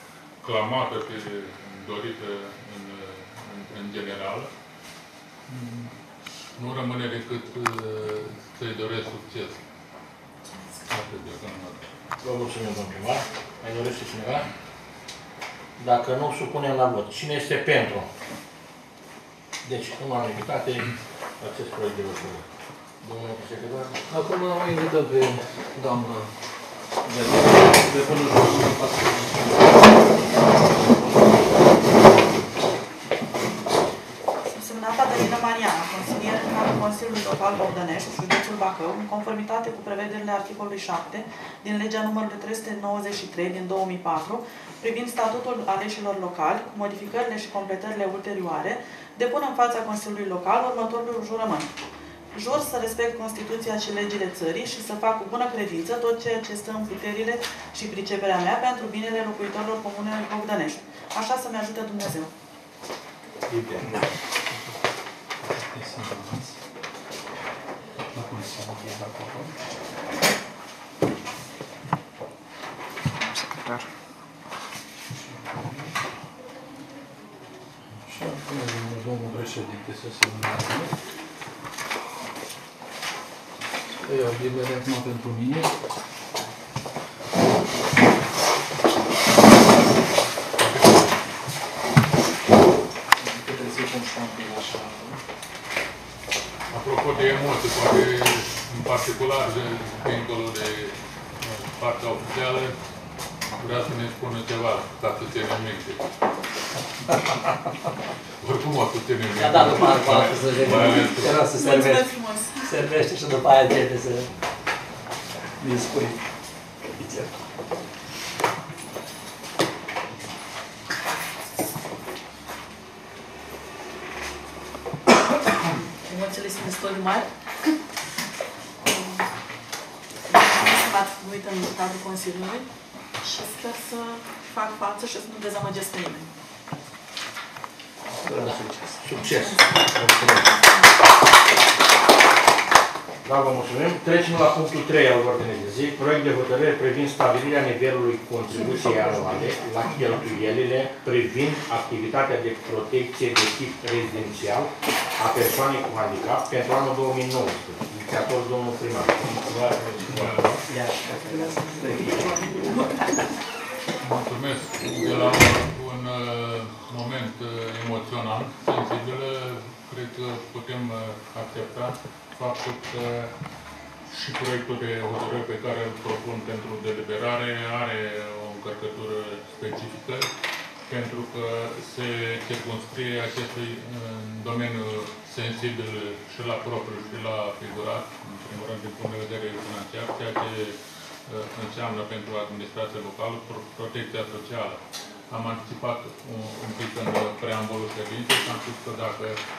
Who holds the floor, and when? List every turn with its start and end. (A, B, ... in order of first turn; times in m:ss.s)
0:00.4-0:04.5 A
0:05.5-0:06.0 A
0:06.6-0:09.6 A
0:10.9-0:11.9 A
0:12.2-0:14.5 B
0:15.8-0:18.1 B
0:19.6-0:22.5 B
0:23.0-0:24.0 B
0:24.1-0:26.3 C
0:27.0-0:29.7 C
0:34.4-0:51.7 D
0:52.3-1:02.3 D
1:03.5-1:04.7 C
1:05.4-1:06.6 C
1:08.1-1:09.6 C
1:13.4-1:13.8 C
1:15.1-1:15.9 C
1:18.0-1:21.0 C
1:24.0-1:25.7 C
1:30.6-1:31.1 A
1:33.2-1:35.2 C
1:36.7-1:42.7 A
1:43.6-1:46.0 A
1:48.4-1:51.4 A
1:49.4-1:52.0 E
1:51.4-1:52.7 D
1:52.6-1:54.3 E
1:55.6-1:56.2 E
1:56.9-1:57.3 E
2:06.0-2:07.7 D
2:08.8-2:09.3 D
2:10.3-2:12.7 D
2:13.2-2:16.3 D
2:18.3-2:20.5 B
2:18.6-2:18.9 C
2:19.1-2:20.9 D
2:23.2-2:40.4 B
2:40.0-2:40.6 A
2:40.7-2:42.0 E
2:41.3-2:43.0 D
2:44.0-2:53.3 A
2:54.1-3:00.3 A
3:00.9-3:19.4 A